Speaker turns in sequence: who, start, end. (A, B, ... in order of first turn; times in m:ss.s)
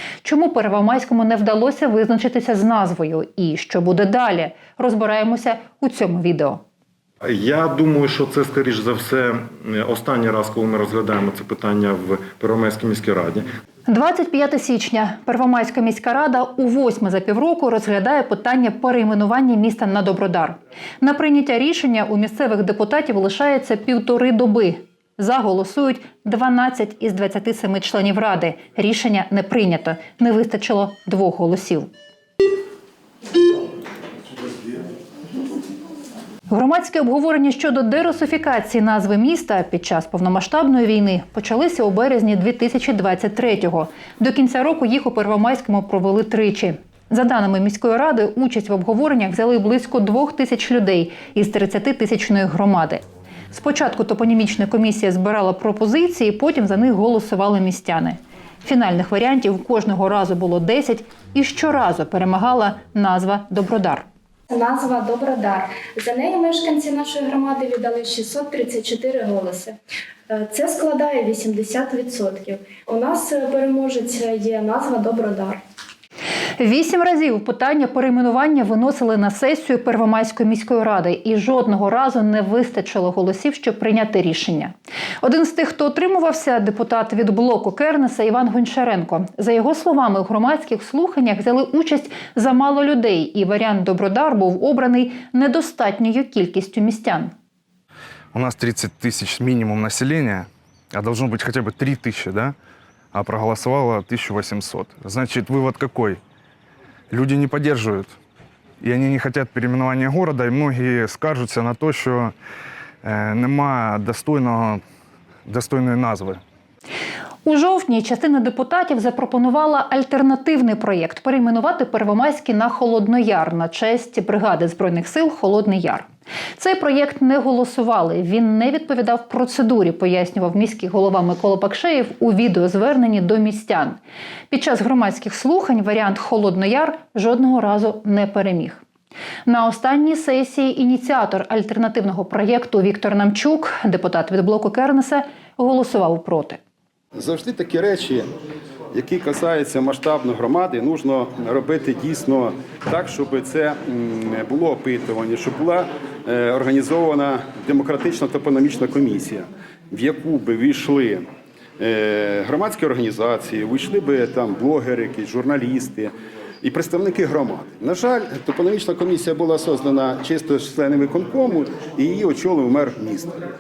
0:00.2-0:06.6 A
0:07.2-0:13.5 B
0:13.9-0:31.9 A
0:36.5-1:04.0 A
1:04.5-1:09.8 C
1:10.3-1:15.6 C
1:16.6-1:37.3 A
1:38.3-1:42.6 D
1:43.1-1:46.2 D
1:47.1-1:48.2 D
1:48.8-1:52.3 D
1:53.0-1:54.8 D
1:55.5-1:56.4 D
1:57.4-2:06.0 A
2:06.6-2:14.0 A
2:14.5-2:18.8 A
2:19.5-2:26.6 A
2:27.2-2:28.3 E
2:28.9-2:41.2 E
2:41.8-2:46.1 E
2:46.6-2:53.4 E